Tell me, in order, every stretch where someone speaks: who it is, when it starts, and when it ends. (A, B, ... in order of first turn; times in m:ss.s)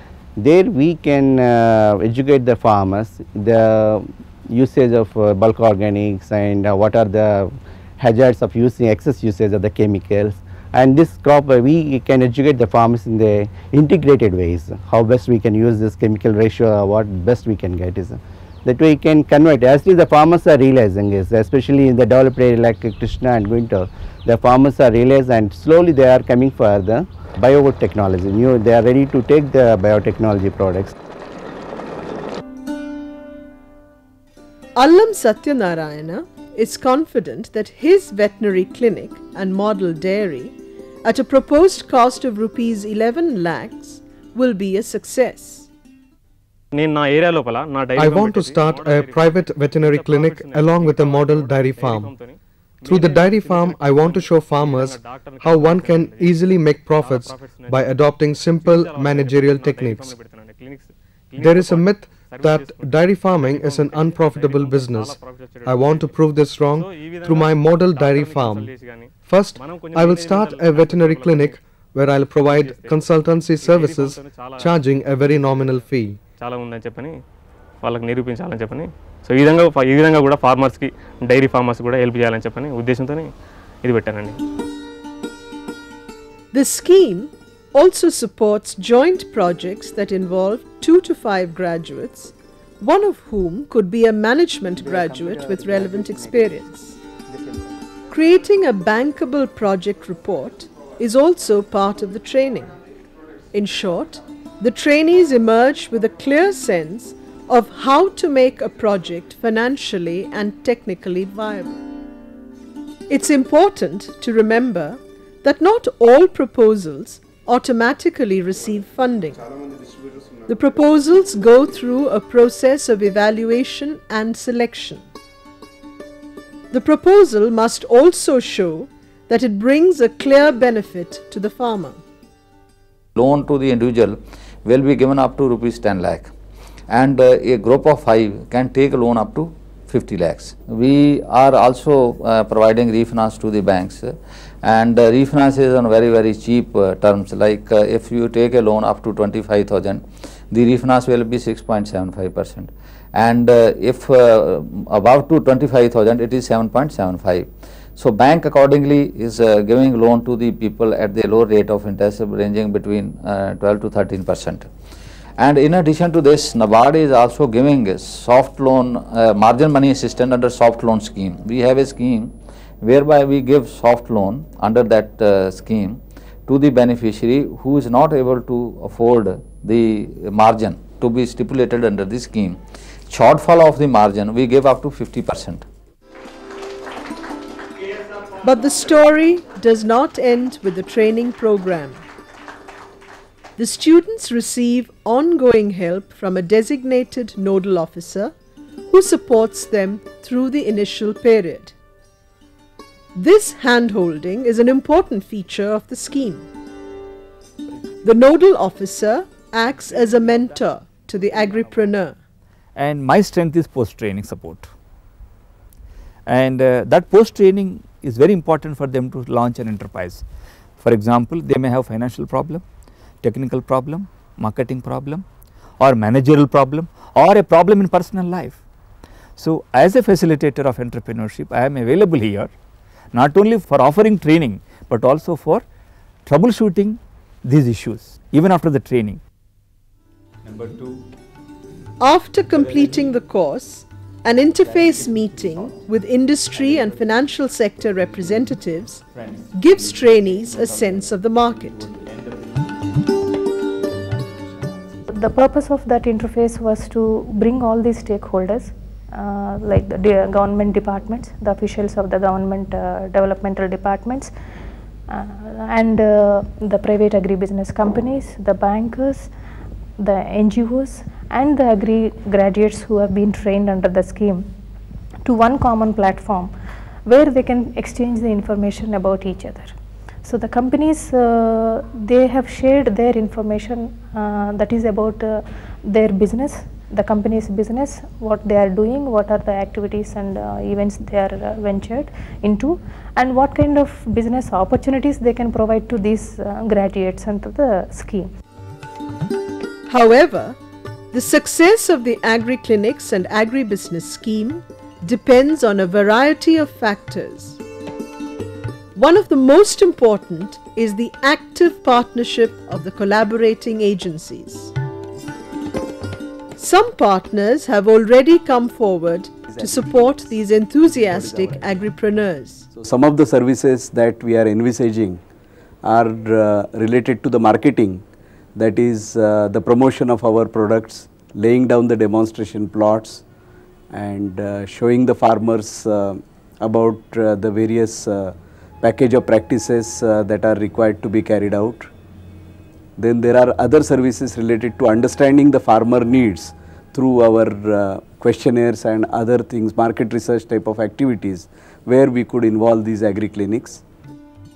0:00.4-0:30.9 A
0:34.8-0:45.7 B
0:46.8-0:58.0 C
0:48.0-0:52.1 D
0:52.8-1:00.2 D
0:58.5-1:11.6 C
1:01.4-1:08.7 D
1:09.3-1:16.2 D
1:12.5-1:13.0 C
1:13.6-1:15.8 C
1:16.4-1:17.1 C
1:17.8-1:23.3 C
1:23.8-1:24.4 C
1:26.5-1:37.0 B
1:35.2-1:35.6 E
1:38.1-1:42.8 B
1:43.5-1:51.8 B
1:53.1-1:59.5 B
2:00.5-2:05.0 B
2:06.7-2:12.0 B
2:13.2-2:16.3 F
2:16.9-2:44.7 F
2:45.4-3:05.6 F
3:08.4-3:12.0 B
3:13.6-3:18.3 B
3:18.9-3:21.8 B
3:23.2-3:26.5 B
3:28.0-3:32.2 B
3:32.8-3:34.7 E
3:36.3-3:40.2 E
3:40.8-3:42.6 E
3:43.2-3:45.2 E
3:45.8-3:48.6 E
3:49.4-3:52.5 E
3:53.1-3:55.6 E
3:56.3-3:59.2 E
4:00.4-4:01.0 E
4:02.0-4:11.8 B
4:02.6-4:02.9 E
4:04.7-4:05.7 E
4:06.5-4:07.0 E
4:09.1-4:13.1 E
4:13.9-4:15.0 E
4:15.1-4:24.3 G
4:25.1-4:29.3 G
4:30.0-4:34.5 G
4:35.2-4:36.5 G
4:37.1-4:39.7 G
4:40.2-4:58.3 G
4:59.9-5:00.6 B
5:01.1-5:07.6 B
5:09.0-5:14.7 B
5:16.6-5:22.7 B
5:19.5-5:20.2 H
5:20.8-5:21.8 H
5:22.7-5:25.2 H
5:25.8-5:28.0 H
5:28.6-5:33.2 H
5:33.9-5:41.9 H
5:43.0-5:53.8 H